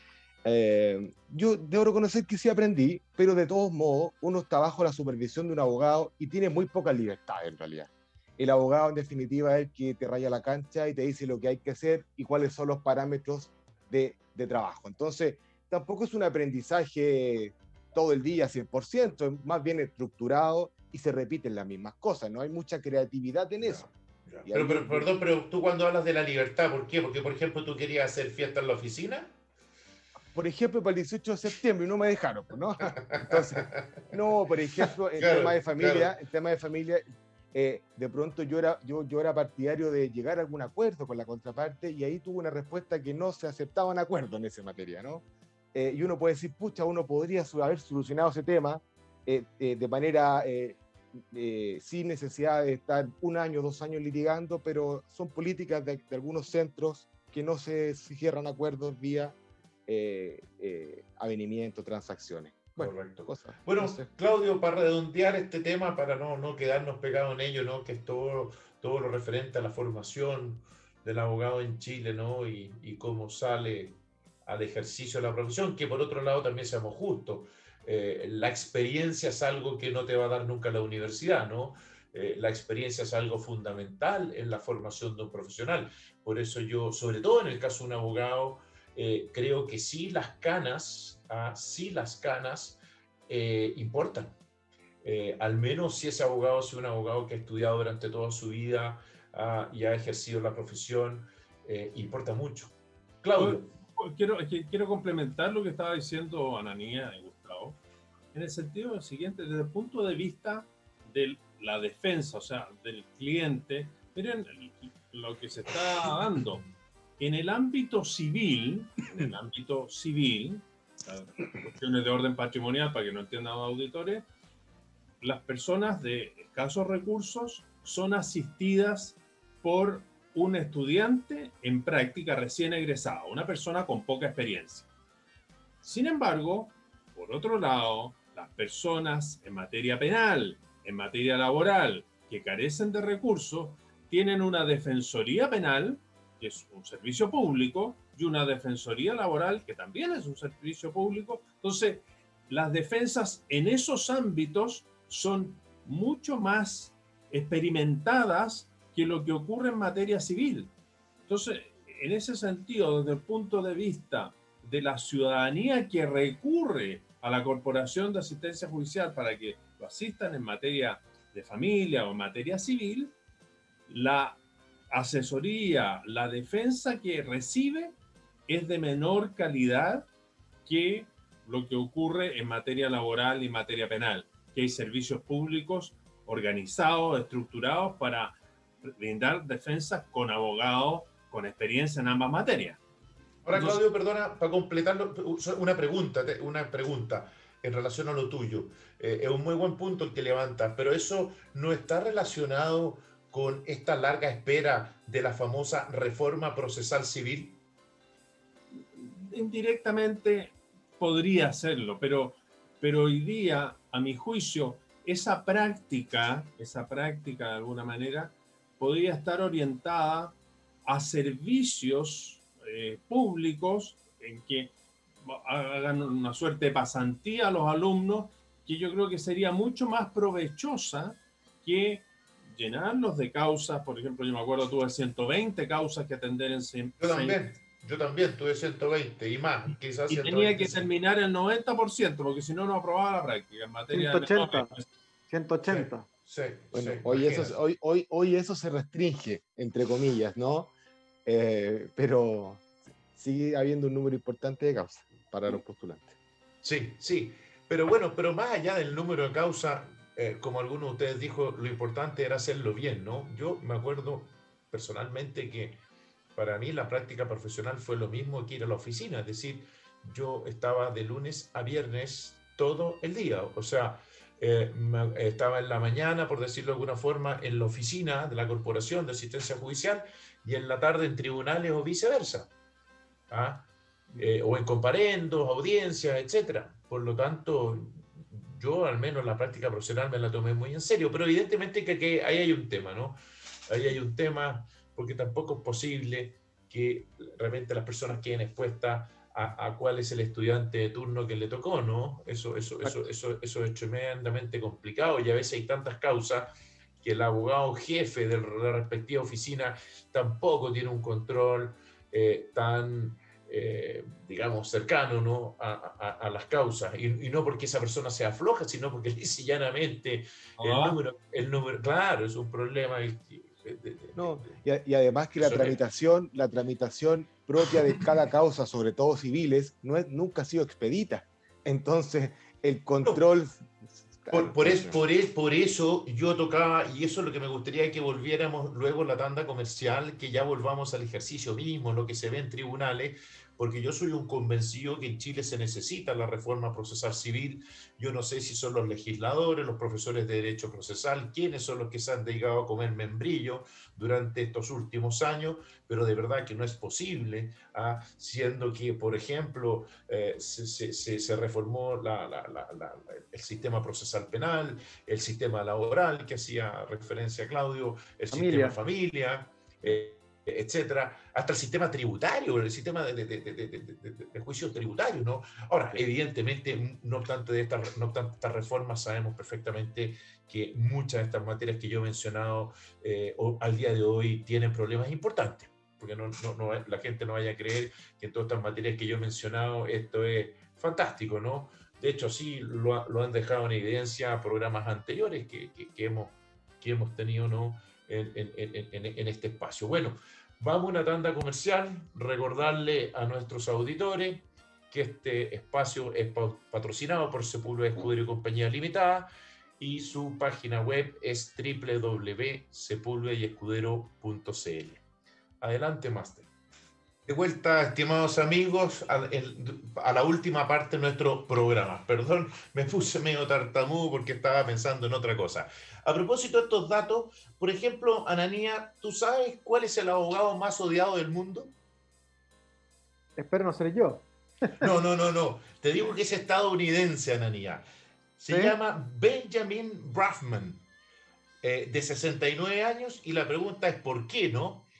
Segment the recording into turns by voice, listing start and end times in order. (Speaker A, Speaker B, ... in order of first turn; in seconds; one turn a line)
Speaker A: 0.5-23.9
Speaker B: 23.6-29.3
Speaker A: 24.4-25.2
Speaker A: 30.3-50.8
Speaker B: 33.1-34.1
Speaker B: 35.2-36.1
Speaker A: 51.3-59.4
Speaker A: 59.9-64.1
Speaker B: 62.8-94.3
Speaker B: 95.0-103.7
Speaker C: 103.4-107.8
Speaker C: 108.3-116.7
Speaker C: 117.2-124.3
Speaker C: 125.2-134.9
Speaker C: 135.8-160.7
Speaker C: 161.3-173.2
Speaker C: 173.9-174.4
Speaker C: 174.9-178.0
Speaker C: 178.5-180.1
Speaker C: 180.7-192.8
Speaker B: 193.4-207.6
Speaker C: 193.5-193.8
Speaker C: 208.7-220.3
Speaker C: 220.9-224.7
Speaker C: 225.2-237.4
Speaker B: 237.0-240.9
Speaker C: 240.1-244.9
Speaker D: 243.9-244.7
Speaker D: 245.3-246.1
Speaker B: 245.7-247.6
Speaker A: 246.7-250.7
Speaker A: 251.2-252.6
Speaker A: 253.2-256.1
Speaker B: 256.6-265.8
Speaker B: 266.4-282.5
Speaker B: 283.3-293.2
Speaker B: 293.7-324.6
Speaker C: 320.6-321.0
Speaker A: 324.2-335.0
Speaker B: 325.4-325.8
Speaker B: 334.3-415.0
Speaker D: 368.3-368.8
Speaker B: 415.6-416.5
Speaker B: 417.3-431.7
Speaker D: 433.4-434.9
Speaker B: 434.8-437.9
Speaker B: 438.4-440.9
Speaker D: 438.5-438.8
Speaker B: 441.6-444.9